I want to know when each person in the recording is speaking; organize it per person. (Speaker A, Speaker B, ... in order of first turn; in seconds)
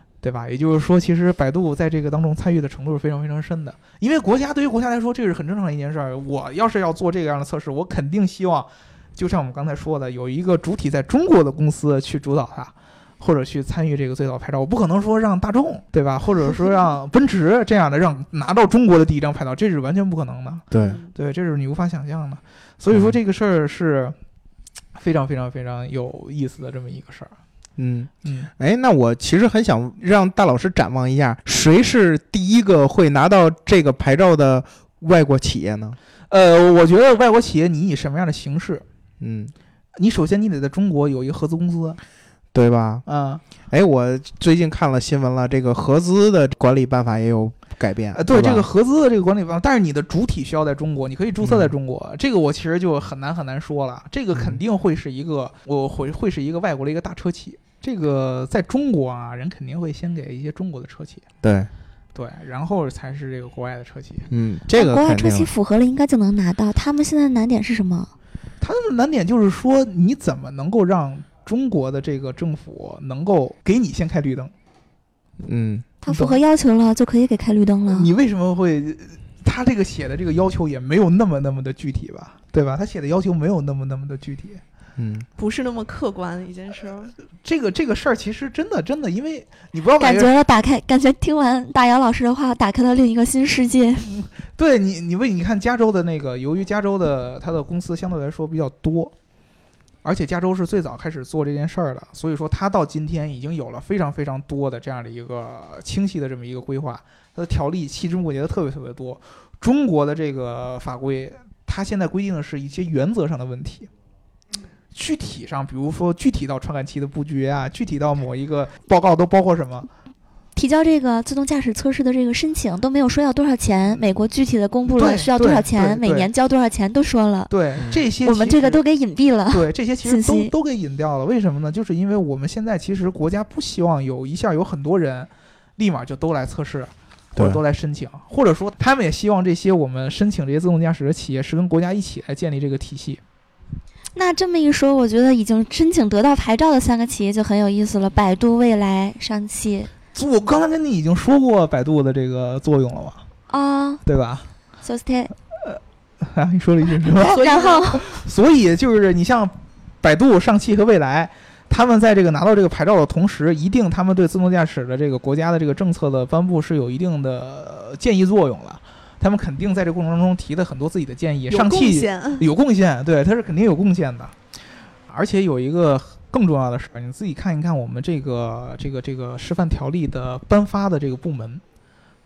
Speaker A: 0.2-24.1, 24.9-27.3, 28.2-28.5, 36.3-38.8, 40.0-42.0, 43.0-43.4, 48.1-61.2, 62.1-64.3, 68.6-74.5, 76.1-76.4, 77.9-84.6, 87.4-90.3, 94.1-99.1, 100.0-113.9, 114.9-119.9, 124.9-126.3, 127.5-128.8, 129.5-143.2, 150.1-153.2, 154.0-154.5, 155.6-174.3, 175.1-181.6
Speaker B: 20.7-21.0, 27.8-36.0, 39.2-39.5, 42.5-43.0, 43.7-48.7, 51.4-51.7, 54.3-54.6, 61.4-61.7, 64.3-65.5, 75.4-75.8, 85.0-85.3
Speaker C: 20.8-21.1, 85.4-87.1, 157.2-158.0, 171.5-172.5
Speaker D: 64.7-68.1, 76.0-78.1, 90.0-94.1, 120.5-127.5, 128.2-130.5, 144.1-149.9, 153.5-154.0, 154.8-155.3, 157.2-158.1